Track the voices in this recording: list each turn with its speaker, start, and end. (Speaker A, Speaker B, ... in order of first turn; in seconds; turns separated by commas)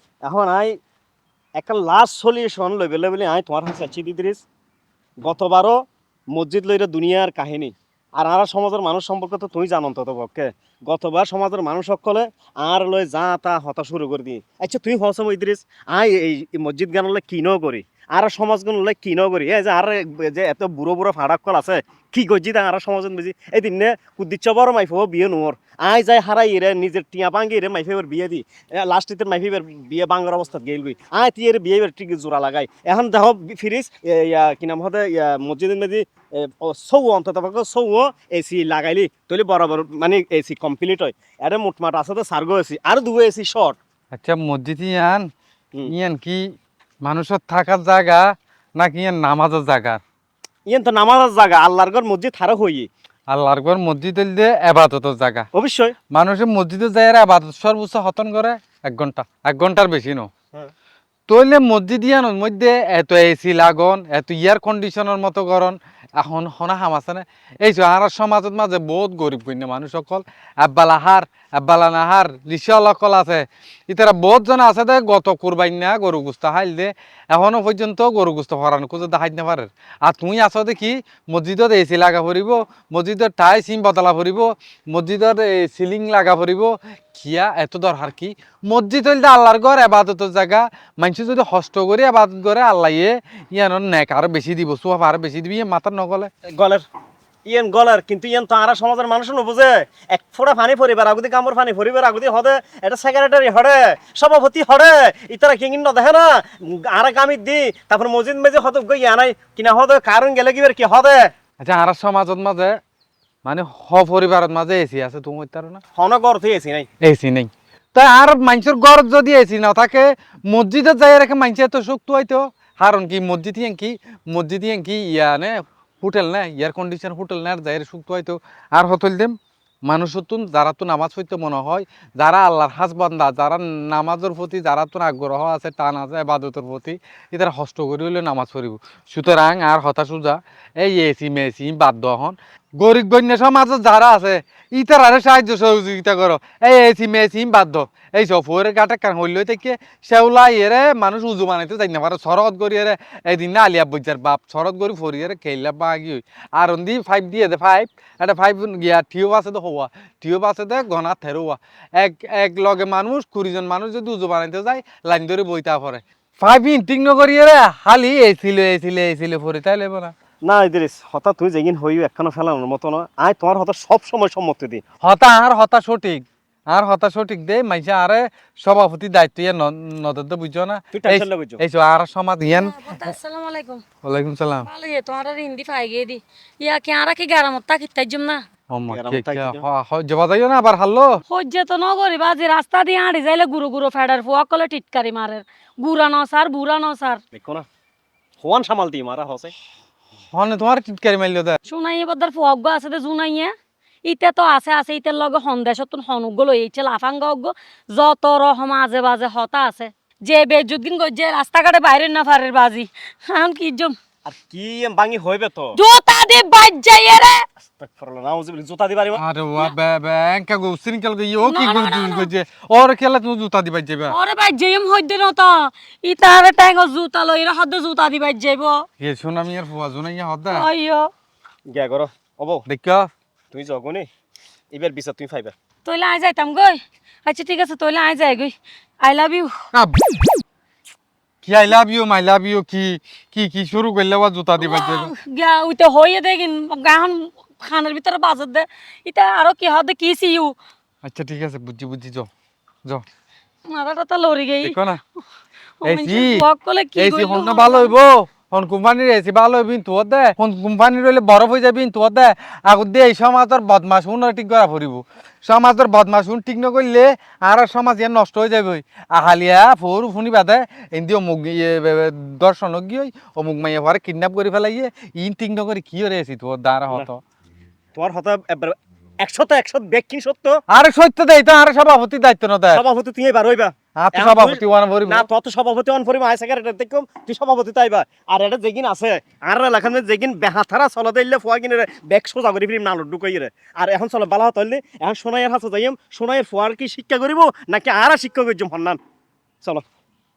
Speaker A: 0.2-0.8, Speaker A: 1.6-4.4, Speaker A: 5.2-5.8, Speaker A: 6.3-43.8, Speaker B: 44.1-45.3, Speaker B: 45.9-50.0, Speaker A: 50.7-52.9, Speaker B: 53.3-55.5, Speaker A: 55.5-56.0, Speaker B: 56.1-60.3, Speaker B: 61.3-96.3, Speaker A: 96.5-96.8, Speaker A: 97.5-111.3, Speaker B: 111.6-112.8, Speaker B: 113.5-115.8, Speaker A: 116.0-116.9, Speaker B: 117.0-129.3, Speaker B: 129.9-170.1, Speaker A: 170.4-174.8, Speaker B: 175.0-183.1, Speaker A: 180.9-181.6, Speaker C: 182.5-183.8, Speaker B: 184.0-184.7, Speaker C: 184.7-188.4, Speaker B: 188.7-191.2, Speaker A: 188.9-189.6, Speaker C: 191.3-197.2, Speaker A: 197.3-197.7, Speaker A: 198.4-199.5, Speaker B: 200.3-201.6, Speaker C: 201.7-203.5, Speaker C: 204.1-213.9, Speaker A: 214.3-215.8, Speaker C: 215.8-217.4, Speaker A: 217.8-219.2, Speaker B: 219.2-224.2, Speaker C: 221.4-222.3, Speaker C: 224.1-228.8, Speaker B: 229.0-230.7, Speaker C: 230.5-231.1, Speaker A: 231.7-232.7, Speaker B: 232.7-233.1, Speaker A: 233.5-234.1, Speaker A: 234.7-235.5, Speaker C: 235.8-239.5, Speaker B: 239.7-240.2, Speaker B: 241.4-245.1, Speaker C: 244.6-250.6, Speaker B: 251.0-252.3, Speaker C: 253.7-254.8, Speaker B: 254.6-255.0, Speaker C: 255.8-257.9, Speaker B: 255.8-256.4, Speaker B: 257.0-277.2, Speaker A: 277.9-280.6, Speaker B: 280.7-282.8, Speaker A: 282.7-299.0, Speaker B: 284.0-285.3